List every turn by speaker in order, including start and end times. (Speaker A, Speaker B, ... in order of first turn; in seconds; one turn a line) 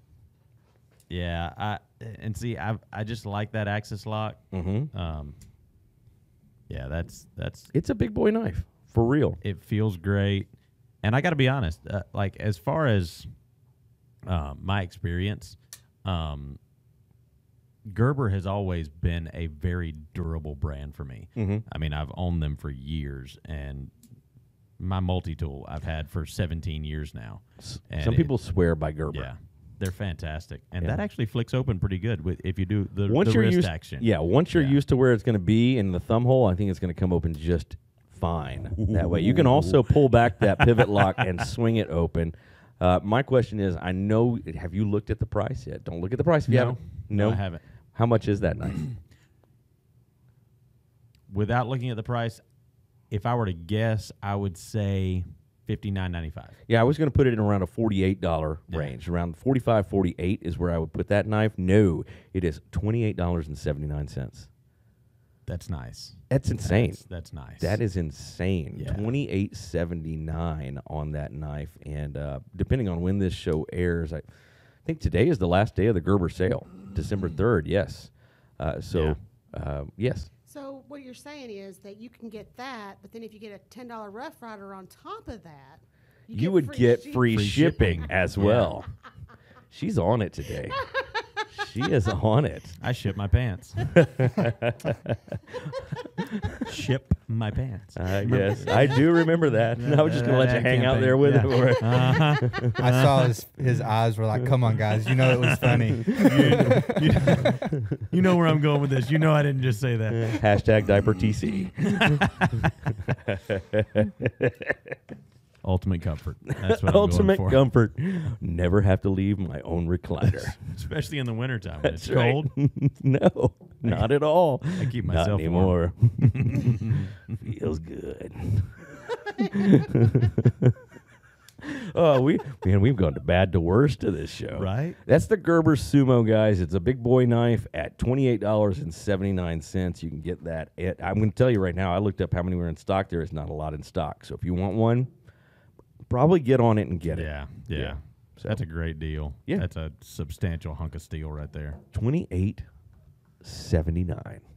Speaker A: 1.1-5.3
Speaker B: 4.5-4.9
Speaker A: 6.7-7.7
Speaker B: 7.7-9.4
Speaker A: 9.4-10.5
Speaker A: 11.0-13.3
Speaker A: 14.2-16.6
Speaker A: 17.8-23.9
Speaker B: 21.4-21.6
Speaker A: 24.8-28.3
Speaker B: 27.6-29.3
Speaker A: 29.1-34.8
Speaker B: 33.1-48.8
Speaker A: 38.8-41.0
Speaker A: 46.5-47.6
Speaker A: 51.3-52.4
Speaker A: 53.1-56.5
Speaker B: 56.7-64.5
Speaker A: 58.7-58.9
Speaker A: 65.5-67.8
Speaker B: 66.3-67.0
Speaker B: 67.5-74.2
Speaker A: 68.7-69.1
Speaker B: 74.8-80.3
Speaker C: 80.5-87.4
Speaker B: 86.3-88.9
Speaker A: 87.3-88.8
Speaker B: 89.7-90.8
Speaker C: 90.8-91.5
Speaker B: 91.5-92.8
Speaker A: 92.8-93.9
Speaker B: 93.9-96.6
Speaker A: 96.6-103.3
Speaker B: 98.0-102.8
Speaker D: 102.8-107.5
Speaker A: 105.0-110.5
Speaker B: 106.0-108.1
Speaker B: 110.1-114.9
Speaker A: 111.8-113.0
Speaker A: 115.6-117.6
Speaker B: 116.5-120.6
Speaker A: 120.2-122.5
Speaker B: 121.8-130.8
Speaker A: 123.8-124.1
Speaker A: 124.7-127.4
Speaker B: 131.6-145.1
Speaker A: 134.5-135.0
Speaker B: 146.1-148.6
Speaker A: 147.1-151.8
Speaker B: 151.9-152.7
Speaker B: 153.4-154.4